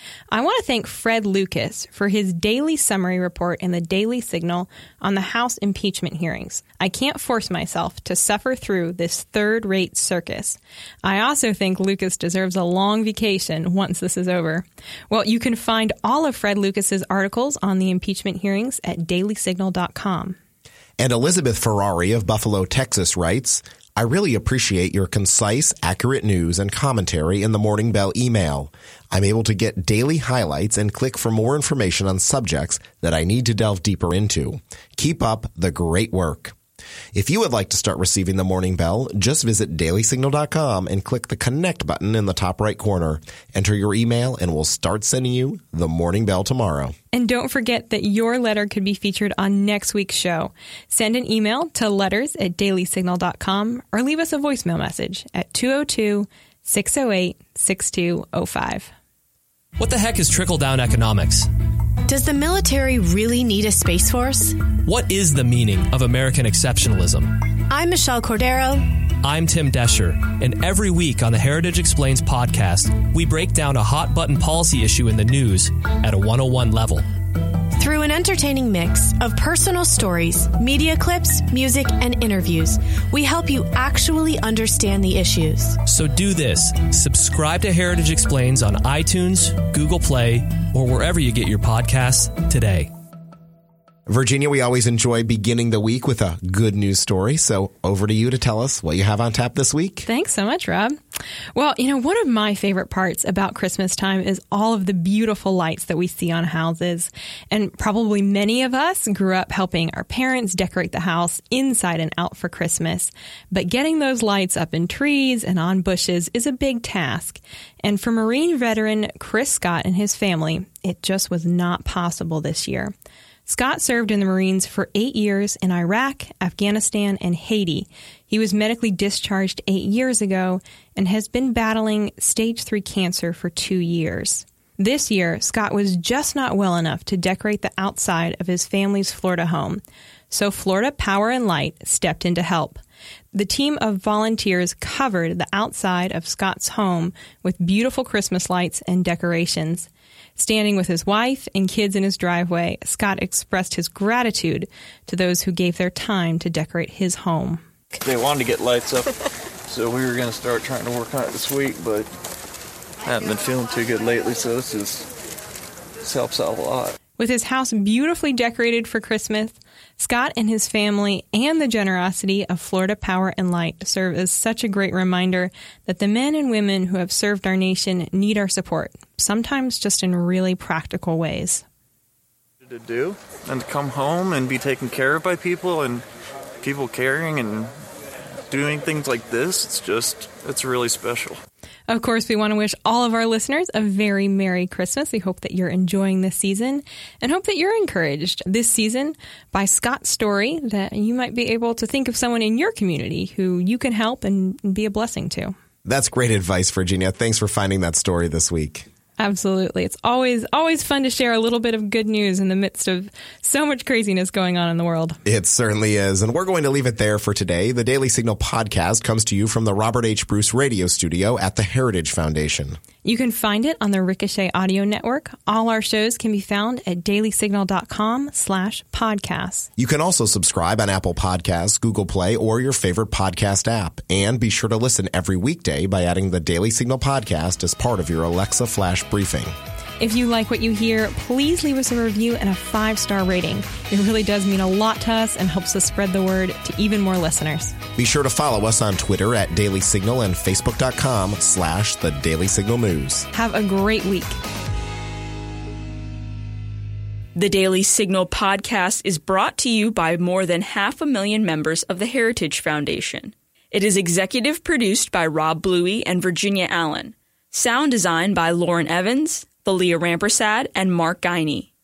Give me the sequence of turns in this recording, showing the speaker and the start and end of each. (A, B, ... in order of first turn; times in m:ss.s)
0:00.3-0:20.4 A
0:21.0-0:36.5 B
0:37.1-0:46.9 B
0:47.1-0:58.9 A
0:59.8-1:01.5 C
1:02.1-1:04.6 D
1:04.8-1:07.4 C
1:07.7-1:09.0 D
1:09.2-1:17.0 C
1:17.7-1:25.8 D
1:25.8-1:32.9 C
1:34.1-1:40.0 B
1:40.0-1:41.0 A
1:41.5-2:02.9 A
2:03.4-2:22.8 A
2:23.3-2:37.6 A
2:38.0-2:42.1 E
2:43.0-2:45.1 E
2:46.0-2:47.0 E
2:47.2-3:01.6 A
3:02.6-3:06.0 E
3:06.6-3:07.7 E
3:08.5-3:11.4 E
3:11.9-3:25.5 A
3:25.8-3:28.9 B
3:29.2-3:35.2 A
3:35.2-3:42.8 B
3:43.0-3:49.7 A
3:49.8-3:59.5 B
4:00.0-4:07.7 A
4:08.0-4:13.3 B
4:13.3-4:14.4 A
4:17.4-4:31.7 F